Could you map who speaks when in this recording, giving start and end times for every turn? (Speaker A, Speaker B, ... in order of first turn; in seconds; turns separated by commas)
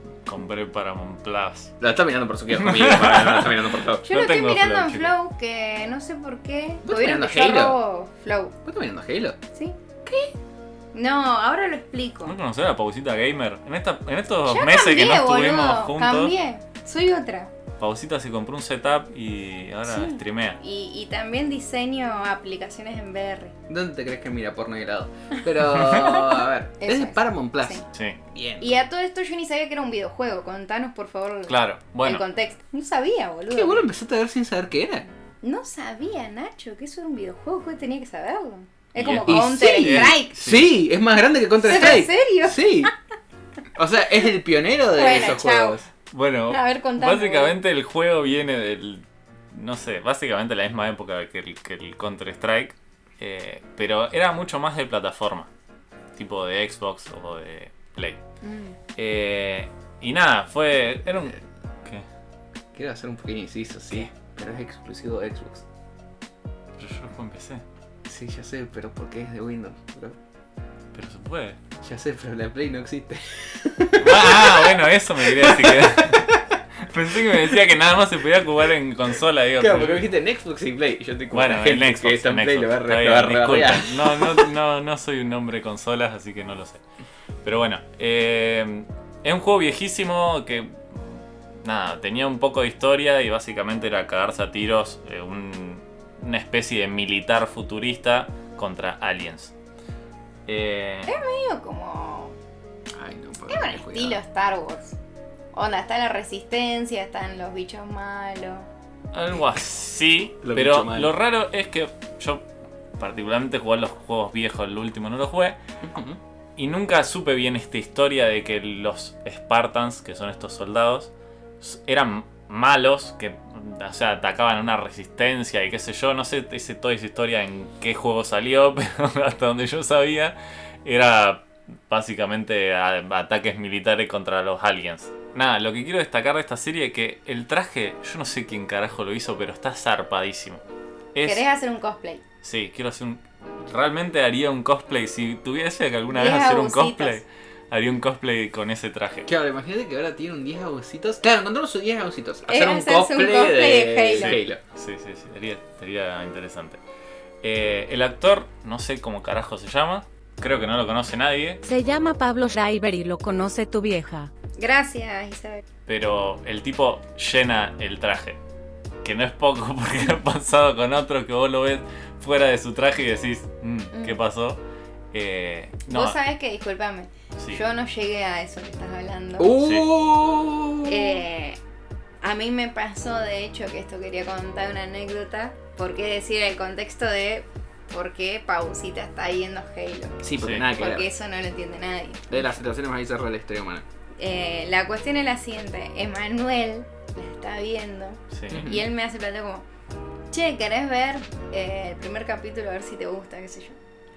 Speaker A: 0.2-1.7, Speaker B: 1.8-4.1, Speaker A: 2.5-5.1, Speaker C: 4.0-8.6, Speaker B: 6.8-7.8, Speaker B: 8.7-9.4, Speaker C: 10.9-12.3, Speaker A: 12.2-16.3, Speaker C: 14.5-17.5, Speaker A: 17.8-20.6, Speaker C: 19.9-23.6, Speaker B: 23.7-28.8, Speaker C: 25.9-26.3, Speaker C: 26.8-27.9, Speaker A: 27.9-28.2, Speaker C: 28.6-33.8, Speaker A: 31.5-32.2, Speaker B: 33.5-35.1, Speaker C: 35.4-40.4, Speaker A: 39.0-40.7, Speaker B: 39.2-42.9, Speaker C: 41.6-42.9, Speaker B: 43.8-45.9, Speaker C: 44.9-45.8, Speaker A: 46.1-55.5, Speaker C: 46.5-47.6, Speaker A: 56.2-58.2, Speaker C: 58.4-58.8, Speaker A: 59.0-62.0, Speaker B: 62.7-65.7, Speaker A: 66.8-67.6, Speaker B: 68.1-70.2, Speaker A: 70.9-71.6, Speaker B: 71.8-76.4, Speaker A: 74.0-80.0, Speaker B: 79.6-84.5, Speaker A: 81.3-86.8, Speaker A: 87.4-99.5, Speaker A: 100.5-101.1, Speaker C: 101.1-102.4, Speaker B: 102.9-104.2, Speaker C: 103.5-105.0, Speaker C: 105.5-108.7, Speaker A: 109.1-112.5, Speaker B: 110.4-111.1, Speaker A: 113.0-115.6, Speaker B: 115.8-116.2, Speaker A: 116.6-140.6, Speaker A: 141.2-141.4, Speaker C: 141.2-142.2, Speaker A: 142.4-149.3, Speaker C: 146.1-147.2, Speaker B: 149.3-154.6, Speaker C: 152.5-154.4, Speaker A: 154.1-156.8, Speaker A: 157.4-161.6, Speaker D: 161.6-164.3, Speaker C: 164.6-165.6, Speaker A: 165.9-168.4, Speaker A: 169.0-174.6, Speaker C: 173.9-174.2, Speaker A: 175.1-176.2, Speaker C: 175.9-179.6, Speaker B: 179.4-181.2, Speaker A: 179.6-179.9, Speaker C: 180.9-181.6, Speaker C: 182.2-192.6, Speaker B: 190.2-191.1, Speaker A: 190.4-190.7, Speaker B: 192.3-193.8, Speaker C: 194.2-199.7, Speaker A: 198.3-198.7, Speaker B: 198.5-198.9, Speaker C: 200.3-203.8